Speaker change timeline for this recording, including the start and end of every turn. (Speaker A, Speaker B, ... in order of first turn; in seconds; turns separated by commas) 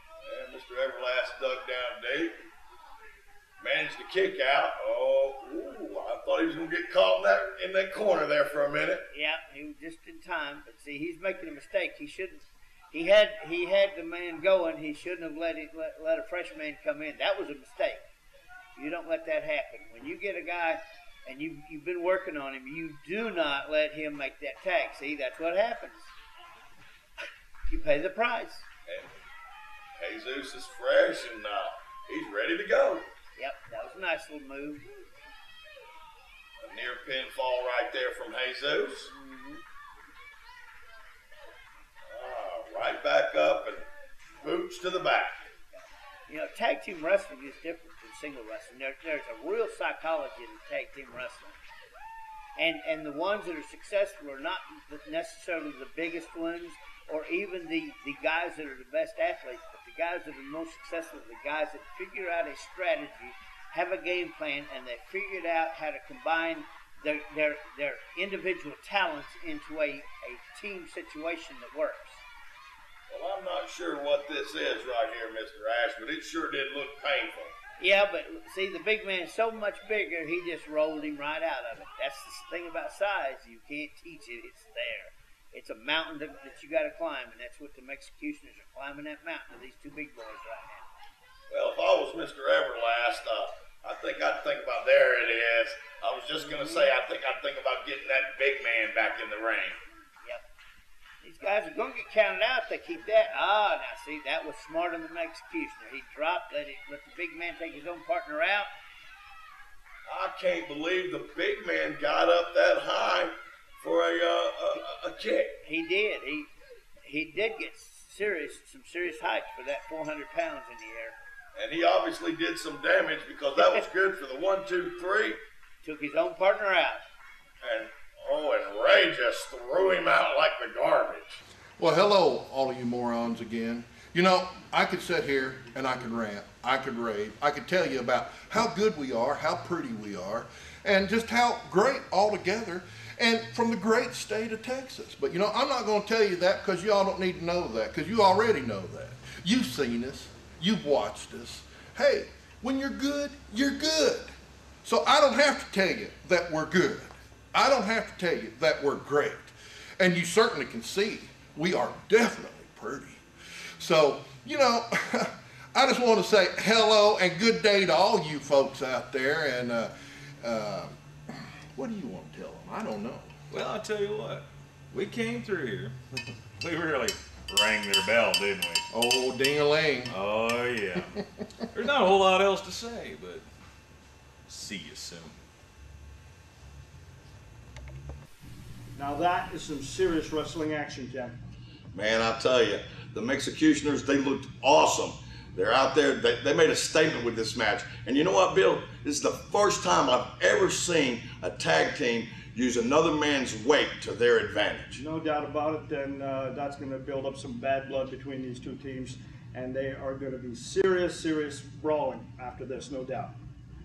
Speaker A: 0.2-2.4, Speaker A: 3.6-9.0, Speaker B: 9.1-18.0, Speaker B: 18.8-26.1, Speaker B: 27.7-28.6, Speaker A: 28.9-29.1, Speaker A: 30.0-33.0, Speaker B: 33.4-34.9, Speaker A: 36.6-39.1, Speaker B: 39.1-39.6, Speaker A: 42.1-43.9, Speaker A: 44.4-45.4, Speaker B: 45.7-51.6, Speaker B: 52.6-72.2, Speaker A: 73.1-77.5, Speaker B: 77.8-90.9, Speaker A: 91.5-99.8, Speaker B: 96.4-96.9, Speaker B: 101.2-108.7, Speaker A: 110.1-115.5, Speaker B: 115.6-116.5, Speaker B: 117.0-121.2, Speaker A: 121.5-125.4, Speaker B: 123.6-123.8, Speaker B: 125.8-127.0, Speaker A: 127.6-131.4, Speaker C: 131.8-154.3, Speaker C: 154.8-163.2, Speaker C: 163.8-173.3, Speaker D: 173.5-176.0, Speaker D: 176.6-178.9, Speaker C: 178.9-180.2, Speaker D: 180.1-181.2, Speaker D: 181.7-183.5, Speaker D: 184.5-185.4, Speaker E: 188.9-191.4, Speaker A: 191.9-205.0, Speaker E: 204.9-213.4